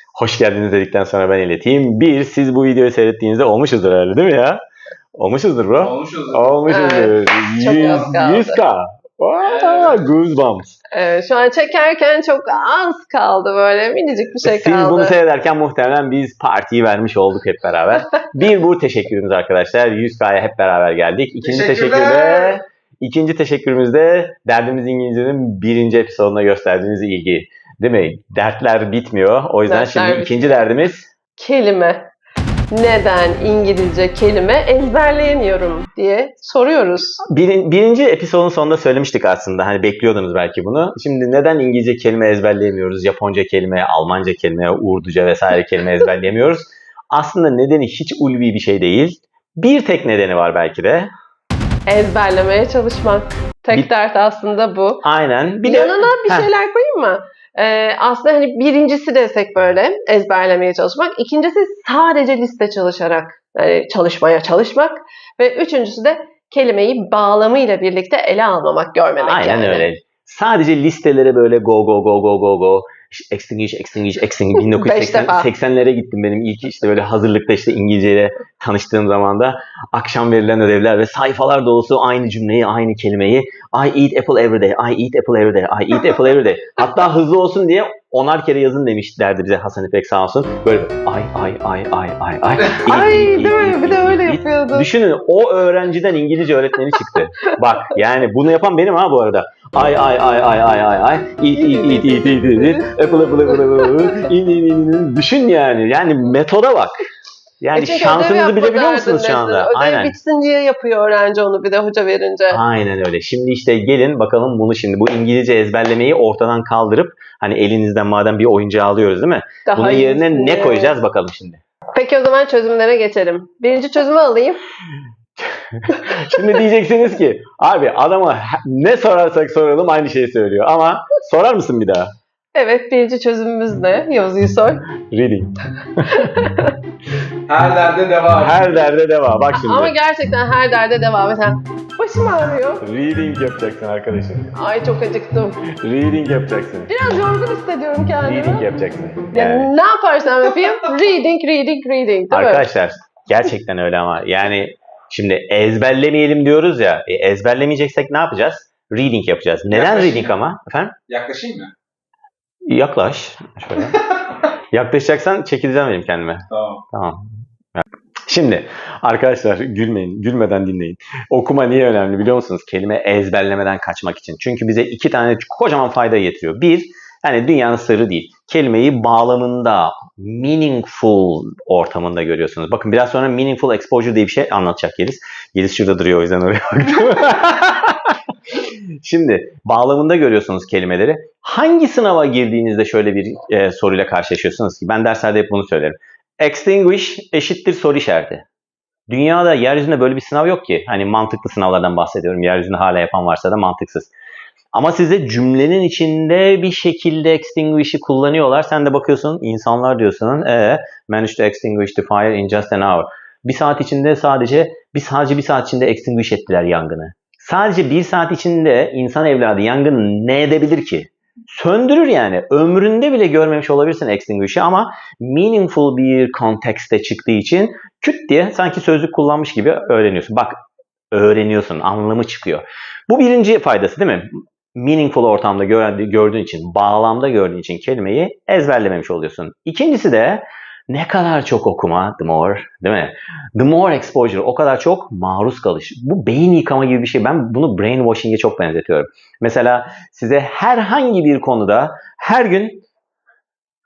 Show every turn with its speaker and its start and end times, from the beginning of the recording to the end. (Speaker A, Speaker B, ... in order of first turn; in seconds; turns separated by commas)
Speaker A: 0.1-4.6, Speaker A: 5.2-10.8, Speaker B: 5.8-6.6, Speaker C: 6.7-8.6, Speaker B: 9.4-10.0, Speaker C: 10.9-15.1, Speaker A: 14.4-31.1, Speaker B: 21.4-22.6, Speaker C: 29.6-30.6, Speaker C: 31.4-32.0, Speaker C: 32.7-37.2, Speaker A: 37.3-51.1, Speaker C: 51.9-55.0, Speaker A: 55.0-56.5, Speaker C: 55.6-69.9, Speaker A: 69.2-107.0, Speaker C: 74.7-75.5, Speaker C: 92.8-94.9, Speaker C: 101.5-104.1, Speaker A: 107.6-110.1, Speaker C: 107.7-112.6, Speaker A: 112.5-121.6, Speaker C: 119.7-121.0, Speaker C: 122.0-124.6, Speaker A: 125.4-132.1, Speaker C: 132.5-134.8, Speaker A: 135.1-136.5, Speaker C: 136.2-136.7, Speaker B: 137.5-138.8, Speaker A: 138.3-139.9, Speaker C: 139.5-142.8, Speaker A: 142.8-144.5, Speaker C: 144.5-145.6, Speaker A: 145.8-146.9, Speaker C: 146.9-148.7, Speaker A: 148.2-149.7, Speaker C: 149.3-152.7, Speaker A: 152.3-160.9, Speaker B: 159.7-160.3, Speaker B: 161.1-161.7, Speaker A: 162.7-164.0, Speaker A: 164.7-198.4, Speaker B: 166.5-166.8, Speaker A: 199.1-204.1, Speaker A: 204.7-230.5, Speaker A: 231.1-252.8